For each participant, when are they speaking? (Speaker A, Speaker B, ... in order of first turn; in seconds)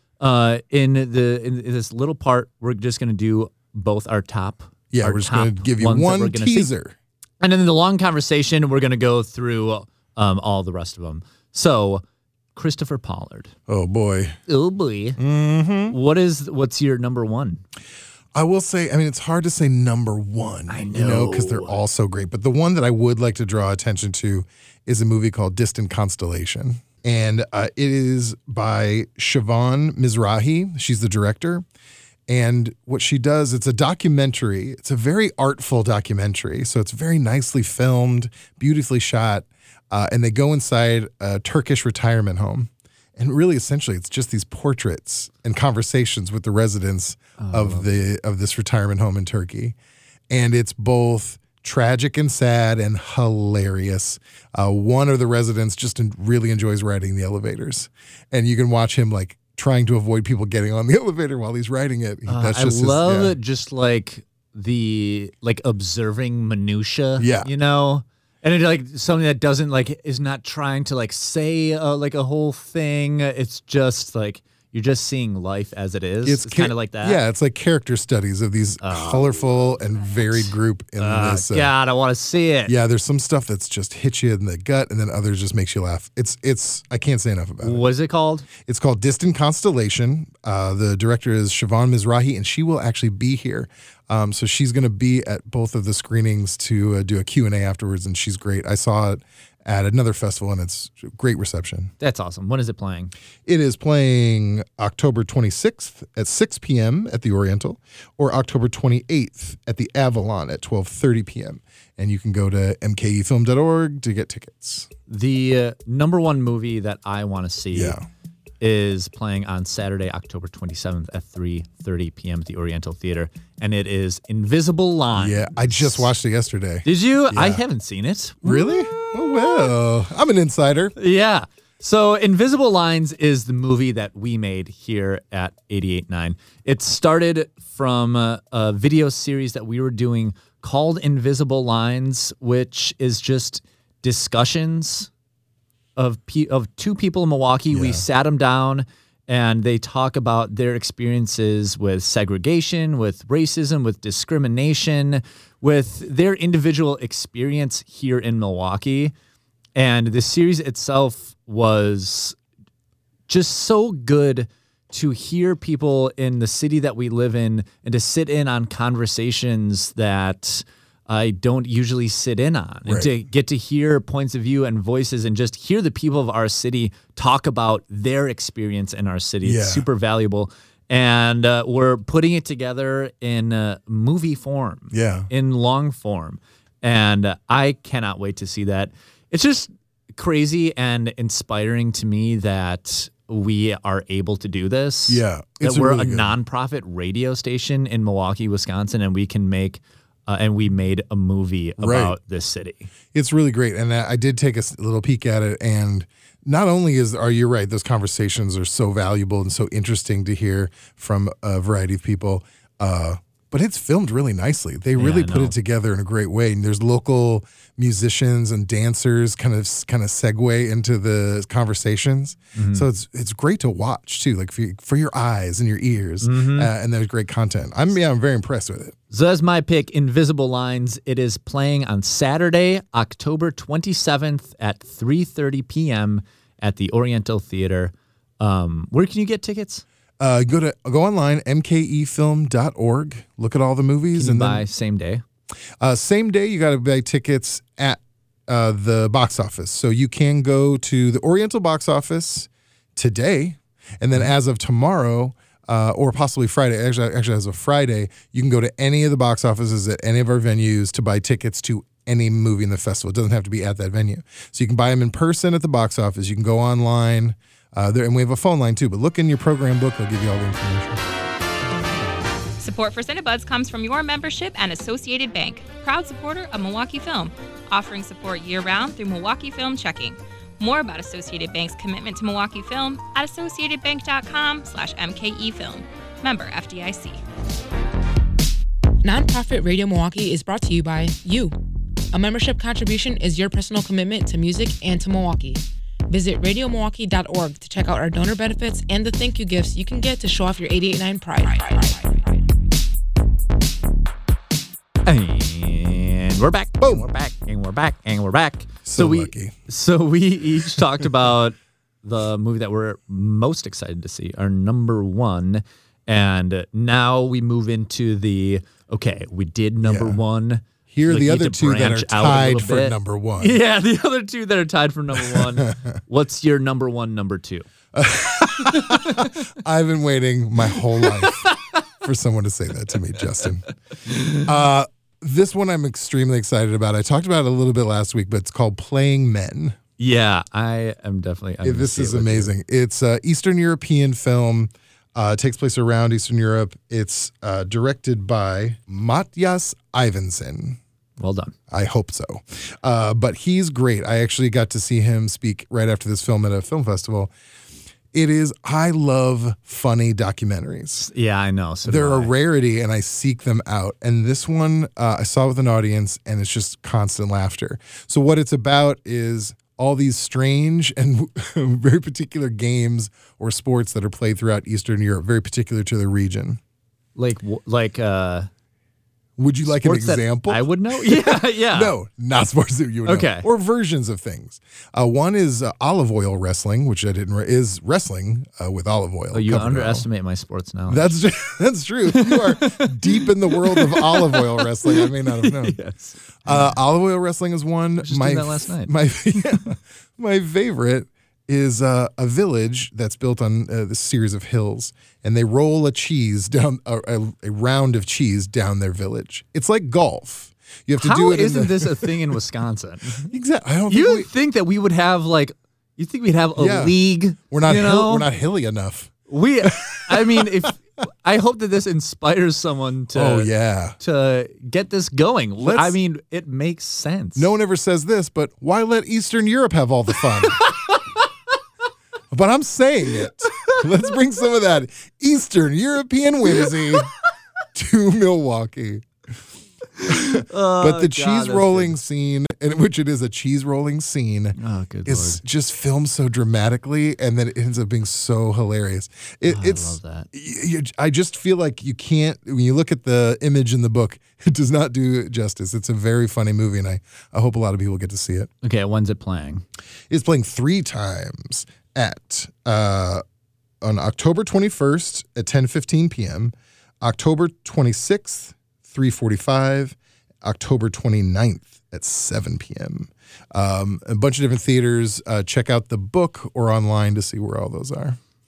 Speaker A: 0.2-6.7, 7.4-12.0, 12.5-13.5, 14.5-15.2, 15.9-17.6, 20.7-21.8, 47.4-48.0, 62.3-77.2, 78.8-79.3, 80.3-82.7, 87.6-88.5, 102.0-103.1, 115.1-118.0, 118.6-126.1, 126.8-128.7, 130.9-145.1, 145.9-159.1, 159.7-162.3, 163.3-202.9, 215.0-215.5, 222.6-222.8, 226.2-226.7, 229.1-239.8, 244.1-245.2, 305.0-327.7, 328.6-329.3, 330.9-331.8, 334.1-334.5, 340.0-342.5, 351.2-351.5, 361.0-362.3, 377.1-378.5, 379.8-381.9, 383.0-383.4, 389.3-391.1, 392.1-396.7, 398.0-398.9, 411.0-413.3, 413.9-418.3, 419.3-427.5, 430.5-431.0, 433.4-433.8, 440.0-442.0, 444.6-445.4, 449.4-450.3, 458.6-459.6
Speaker B: 4.9-6.9, 13.7-14.3, 15.2-15.9, 18.3-31.6, 32.3-49.8, 50.3-63.3, 67.2-67.5, 76.2-81.7, 82.7-87.8, 88.6-101.9, 103.5-114.9, 117.7-118.0, 125.1-127.6, 128.4-130.9, 147.7-148.0, 172.8-173.1, 179.4-179.8, 184.9-185.3, 195.1-196.3, 201.8-202.1, 203.1-228.9, 240.2-244.6, 245.8-271.0, 306.8-307.1, 308.8-309.6, 319.8-320.2, 320.9-323.6, 325.2-325.9, 327.9-333.6, 334.3-339.8, 341.6-350.8, 351.7-357.3, 358.1-361.1, 361.9-376.6, 379.4-390.1, 390.9-395.8, 396.4-412.3, 413.2-414.3, 416.6-420.6, 423.1-424.0, 425.6-425.9, 427.4-430.6, 432.3-437.1, 437.7-439.1, 440.0-458.5, 460.1-463.2, 463.8-478.2
Speaker C: 272.6-287.2
Speaker D: 289.0-291.5, 292.1-302.2